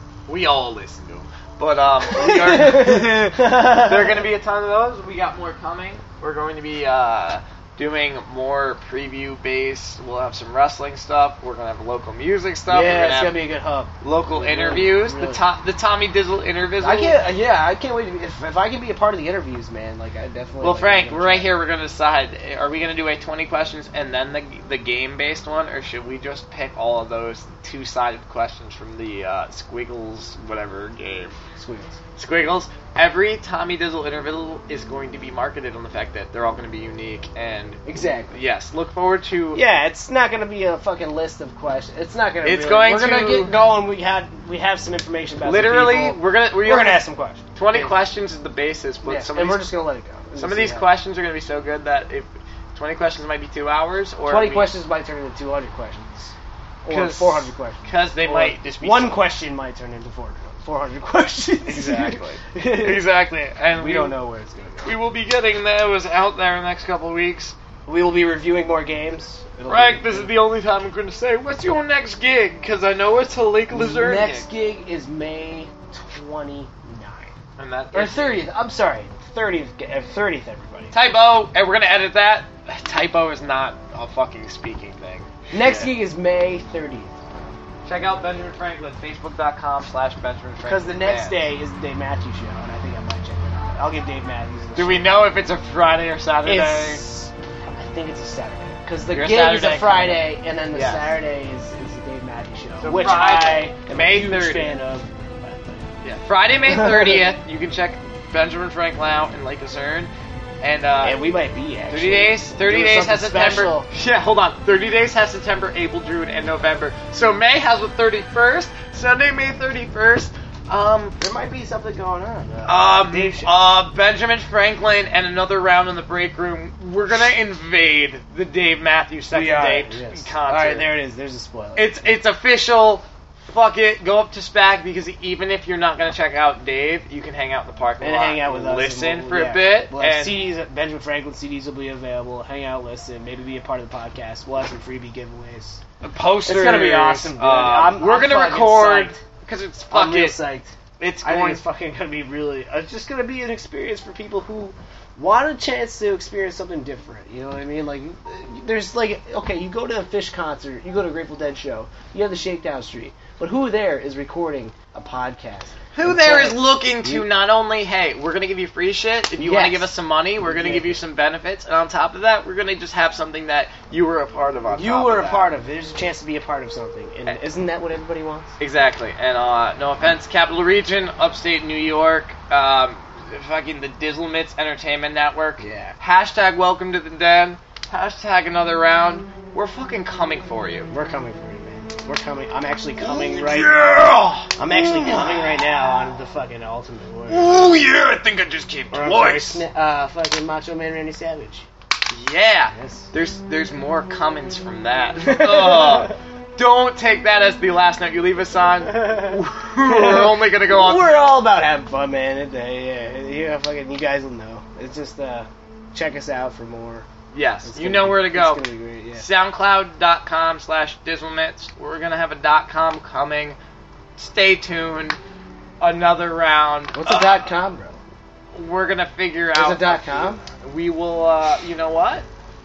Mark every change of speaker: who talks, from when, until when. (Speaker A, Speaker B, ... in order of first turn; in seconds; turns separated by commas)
Speaker A: 0.3-13.4, Speaker B: 2.1-4.2, Speaker B: 12.7-15.4, Speaker A: 14.0-17.2, Speaker B: 16.8-21.5, Speaker A: 20.6-31.4, Speaker B: 31.6-32.0, Speaker A: 32.2-39.6, Speaker B: 37.9-38.4, Speaker B: 39.5-48.0, Speaker A: 42.4-43.6, Speaker A: 45.4-49.7, Speaker B: 49.0-50.9, Speaker A: 50.4-54.7, Speaker B: 54.3-63.0, Speaker A: 56.9-59.2, Speaker A: 61.7-64.2, Speaker B: 63.8-65.0, Speaker A: 64.8-67.5, Speaker B: 67.9-70.4, Speaker A: 69.7-74.5, Speaker B: 73.7-77.3, Speaker A: 77.6-78.5, Speaker B: 77.9-80.9, Speaker A: 80.9-86.0, Speaker B: 85.5-87.2, Speaker A: 87.9-91.4, Speaker B: 90.6-95.2, Speaker A: 94.8-97.0, Speaker B: 96.5-105.9, Speaker A: 99.1-101.2, Speaker A: 102.8-104.8, Speaker A: 106.0-111.2, Speaker B: 106.7-107.3, Speaker B: 111.0-113.9, Speaker A: 111.9-121.2, Speaker B: 121.2-123.5, Speaker A: 122.7-130.9, Speaker B: 129.3-132.2, Speaker A: 131.8-140.4, Speaker B: 138.0-145.8, Speaker A: 146.0-150.4, Speaker B: 146.4-149.2, Speaker B: 149.9-167.3, Speaker A: 151.0-151.6, Speaker A: 165.9-175.5, Speaker B: 169.4-171.0, Speaker B: 174.7-178.6, Speaker A: 178.6-190.9, Speaker B: 185.6-185.9, Speaker B: 190.9-193.8, Speaker A: 193.0-195.7, Speaker B: 194.6-197.5, Speaker A: 197.3-199.6, Speaker B: 198.9-201.7, Speaker A: 202.1-211.2, Speaker B: 202.7-203.1, Speaker B: 205.2-206.2, Speaker B: 208.9-217.1, Speaker A: 217.3-223.6, Speaker B: 217.6-219.3, Speaker A: 224.2-225.2, Speaker A: 225.8-227.5, Speaker B: 226.9-228.0, Speaker A: 228.5-232.3, Speaker B: 229.5-230.4